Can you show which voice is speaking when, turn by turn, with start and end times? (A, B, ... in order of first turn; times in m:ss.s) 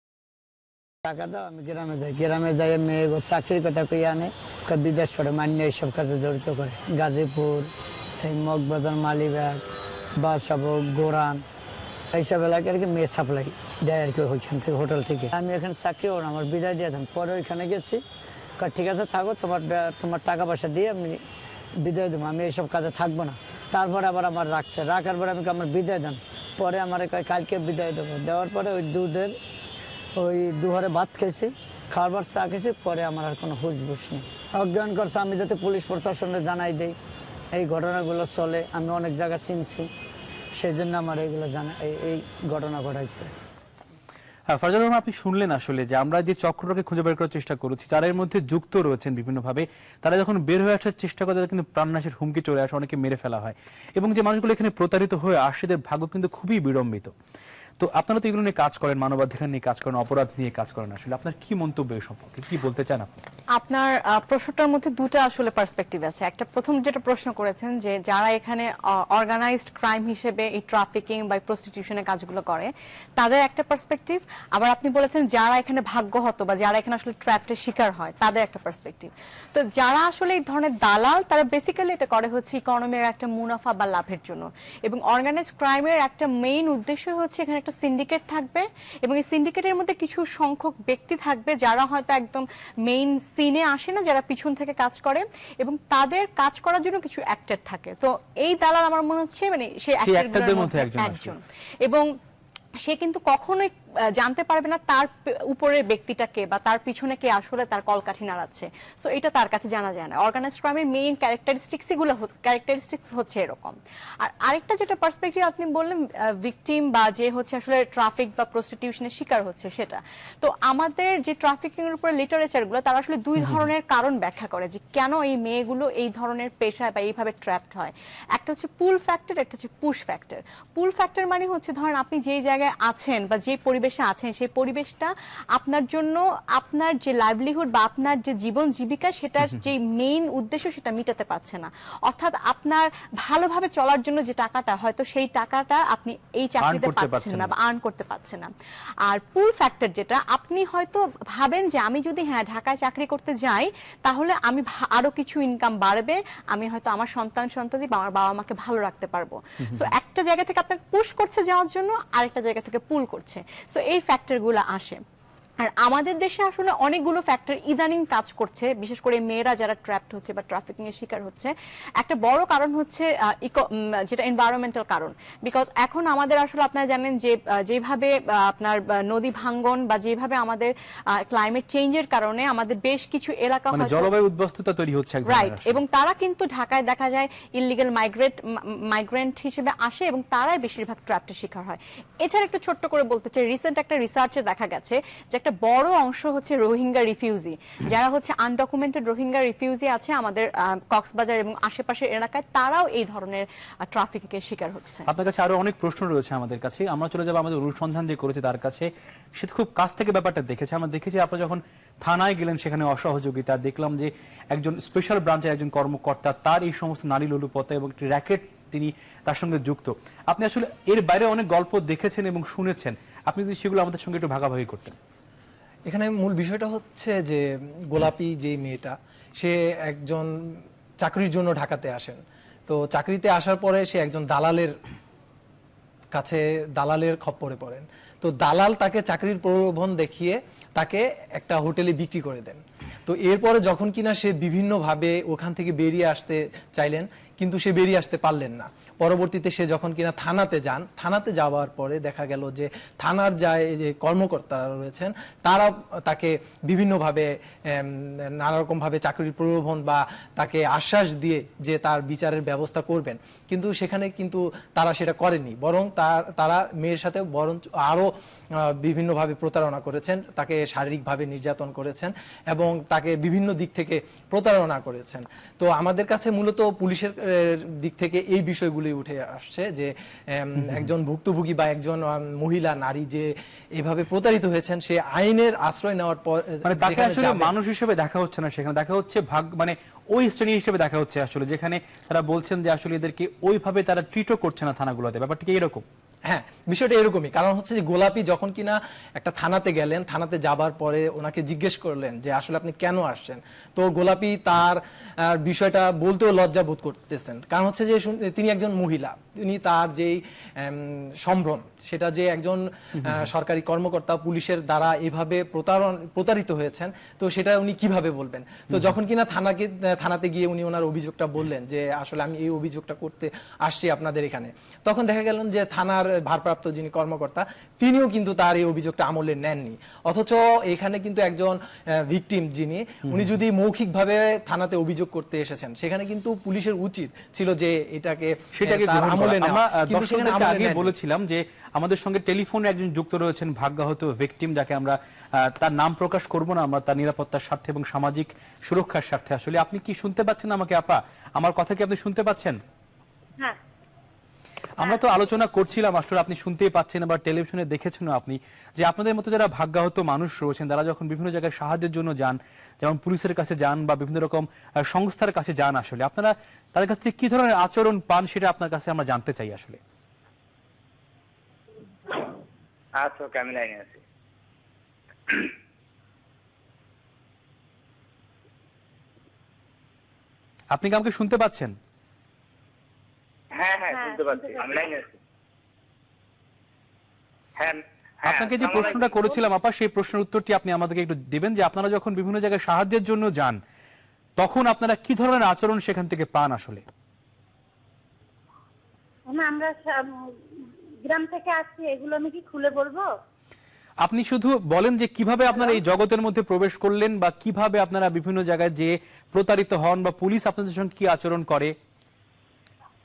0:01.0-0:07.7 A
0:08.2-0:09.6 A
0:10.2-0:11.4 A
0:12.1-0:18.0 A
0:18.6-0:21.2 A
0:21.8-0:29.3 A
0:30.2-0:36.9 A
0:37.5-0:39.9 A
0:40.5-0:43.3 A
0:44.5-0:57.1 B
0:57.8-1:03.1 B
1:03.6-1:42.0 C
1:40.0-1:41.3 B
1:42.8-2:28.5 C
2:26.6-2:27.5 B
2:29.1-2:45.0 C
2:45.6-3:00.7 C
3:01.3-3:04.1 C
3:03.7-3:05.8 B
3:05.2-3:25.1 C
3:25.1-3:44.9 B
3:45.9-3:50.3 D
3:51.0-3:54.7 D
3:56.1-4:28.1 D
4:28.8-4:43.3 D
4:43.8-4:47.5 D
4:46.6-4:55.8 B
4:56.3-5:04.8 D
5:05.4-5:31.6 D
5:32.1-5:40.9 D
5:33.0-5:33.4 B
5:38.6-5:52.6 B
5:54.8-6:09.8 B
6:13.0-6:14.0 E
6:20.7-6:21.8 B
6:23.5-6:25.1 E
6:23.9-6:24.8 F
6:27.6-6:29.4 E
6:28.2-6:33.6 B
6:34.4-6:36.8 B
6:39.3-6:40.0 F
6:41.0-6:43.0 F
6:44.0-6:51.7 B